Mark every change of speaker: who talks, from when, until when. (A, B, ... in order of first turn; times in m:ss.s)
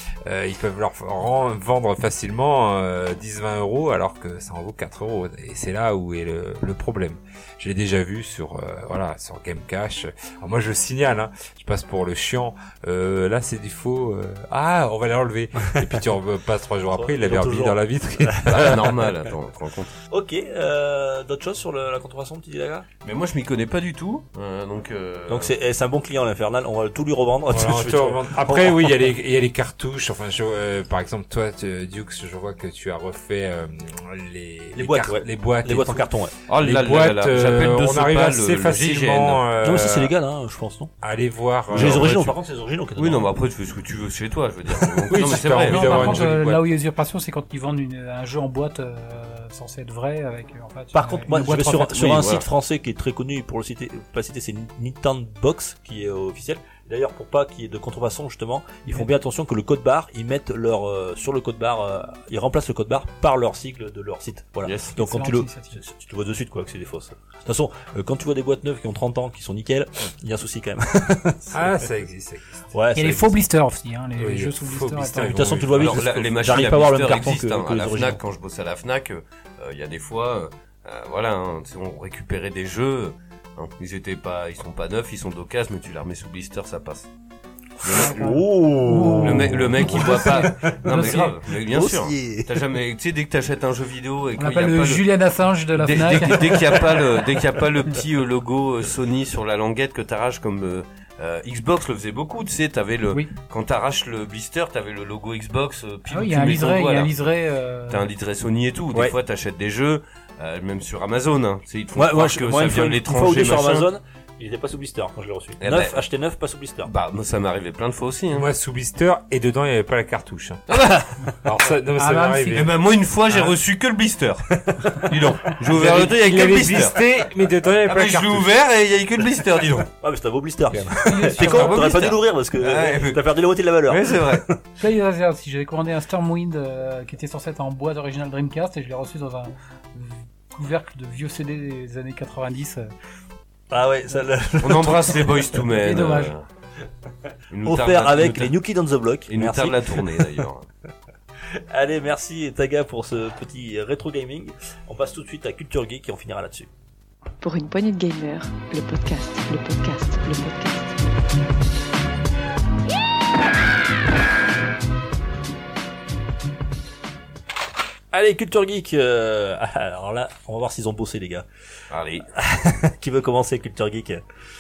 0:00.2-0:18.9 A
0:16.9-0:18.9 B
0:18.5-0:19.9 C
0:20.1-0:22.9 B
0:23.0-0:25.5 C
0:25.3-0:29.0 B
0:27.5-0:36.0 A
0:34.8-0:36.3 B
0:36.5-0:39.4 C
0:36.6-0:40.1 A
0:39.6-0:40.9 B
0:41.0-0:42.3 A
0:41.7-0:42.1 C
0:41.7-0:43.3 B
0:43.0-0:46.3 C
0:45.1-0:46.6 A
0:45.6-0:52.2 D
0:50.9-1:11.9 B
0:51.9-0:52.4 C
1:04.6-1:05.0 C
1:05.0-1:05.8 D
1:11.5-1:12.7 A
1:12.7-1:13.4 B
1:13.0-1:15.6 D
1:14.2-1:16.0 A
1:15.3-1:18.2 B
1:15.8-1:27.1 C
1:27.8-1:28.4 C
1:27.9-1:31.3 D
1:27.9-1:32.6 B
1:29.2-1:35.1 C
1:34.4-1:37.0 D
1:35.7-1:47.2 C
1:46.1-1:48.1 D
1:47.9-1:53.9 C
1:52.0-1:56.9 B
1:55.6-1:56.0 C
1:56.9-1:58.5 C
1:58.3-2:00.8 A
2:00.7-2:01.1 C
2:01.4-2:02.8 A
2:02.0-2:02.6 D
2:02.5-2:07.0 C
2:05.7-2:08.5 A
2:07.9-2:09.9 C
2:10.0-2:14.6 B
2:10.7-2:11.0 A
2:11.0-2:12.0 D
2:11.4-2:13.3 C
2:13.9-2:14.4 C
2:14.8-2:22.9 D
2:23.7-2:25.6 B
2:24.6-2:26.4 C
2:25.7-2:26.3 D
2:27.5-2:28.5 C
2:27.6-2:30.4 B
2:29.3-2:30.7 C
2:31.5-2:36.7 B
2:37.4-2:41.1 E
2:48.1-2:51.5 B
2:51.9-2:52.3 C
2:52.4-2:54.2 B